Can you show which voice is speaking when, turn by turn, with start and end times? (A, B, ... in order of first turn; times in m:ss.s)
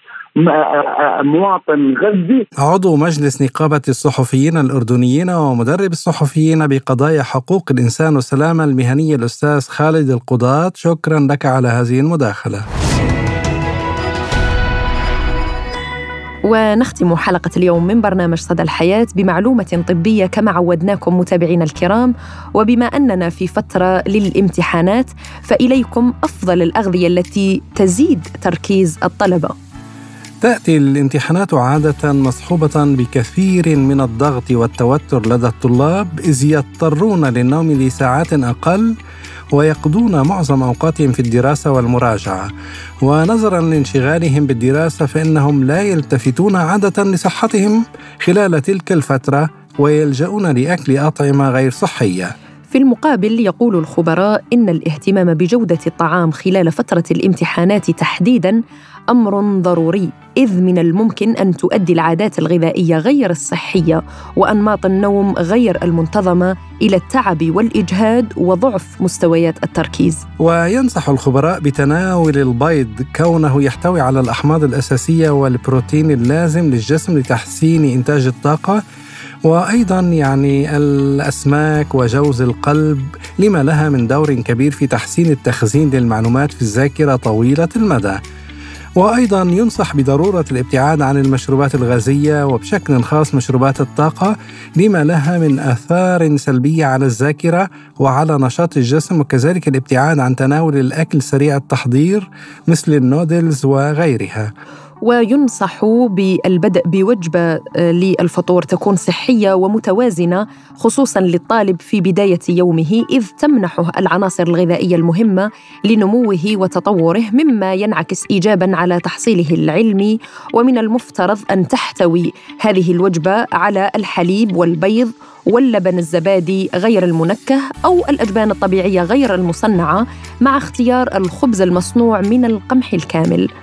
0:00.4-0:02.4 A
0:02.6-0:12.6 B
0:16.4-0:29.5 C
0:30.4-0:38.9 B
0:39.5-0:42.5 B
0:43.0-0:52.3 B
0:52.7-0:58.6 C
0:59.1-1:10.2 C
1:10.4-1:18.8 B
1:19.4-1:28.2 B
1:29.0-1:44.5 B
1:45.0-2:13.5 C